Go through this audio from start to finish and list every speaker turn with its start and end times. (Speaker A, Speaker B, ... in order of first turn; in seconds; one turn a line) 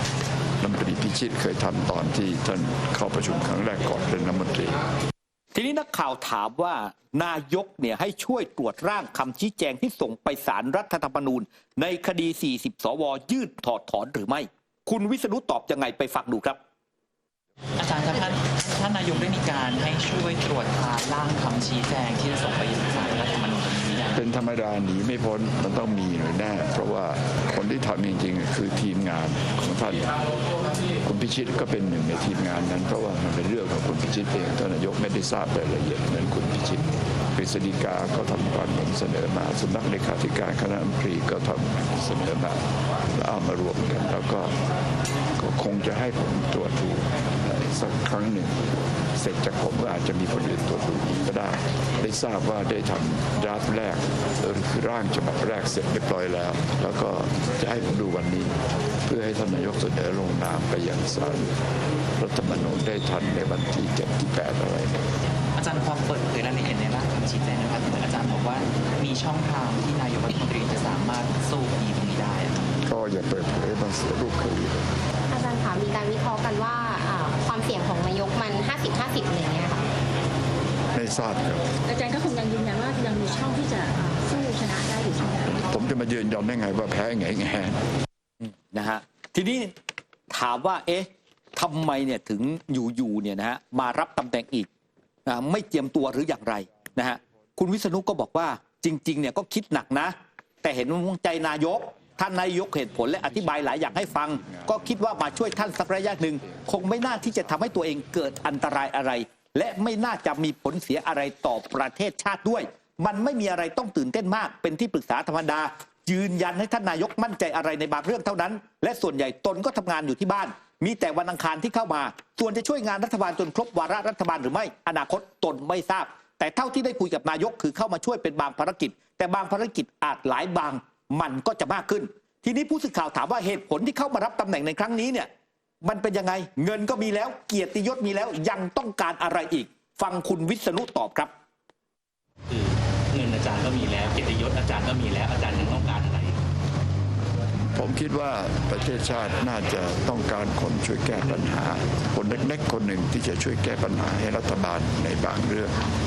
Speaker A: 0.6-4.8
Speaker B: 5.5-16.6
Speaker C: 17.8-24.2
Speaker A: 24.1-30.2
Speaker A: 31.0-42.6
Speaker A: 43.1-44.5
Speaker A: 45.4-61.5
Speaker A: 62.2-65.0
Speaker C: 65.6-72.8
Speaker A: 72.8-74.9
Speaker D: 75.3-79.8
Speaker A: 80.9-81.7
Speaker E: 81.9-85.7
Speaker A: 85.7-87.8
Speaker B: 88.4-89.7
Speaker B: 90.3-94.7
Speaker B: 95.3-135.3
Speaker B: 135.8-141.3
Speaker C: 142.5-146.4
Speaker A: 147.7-155.8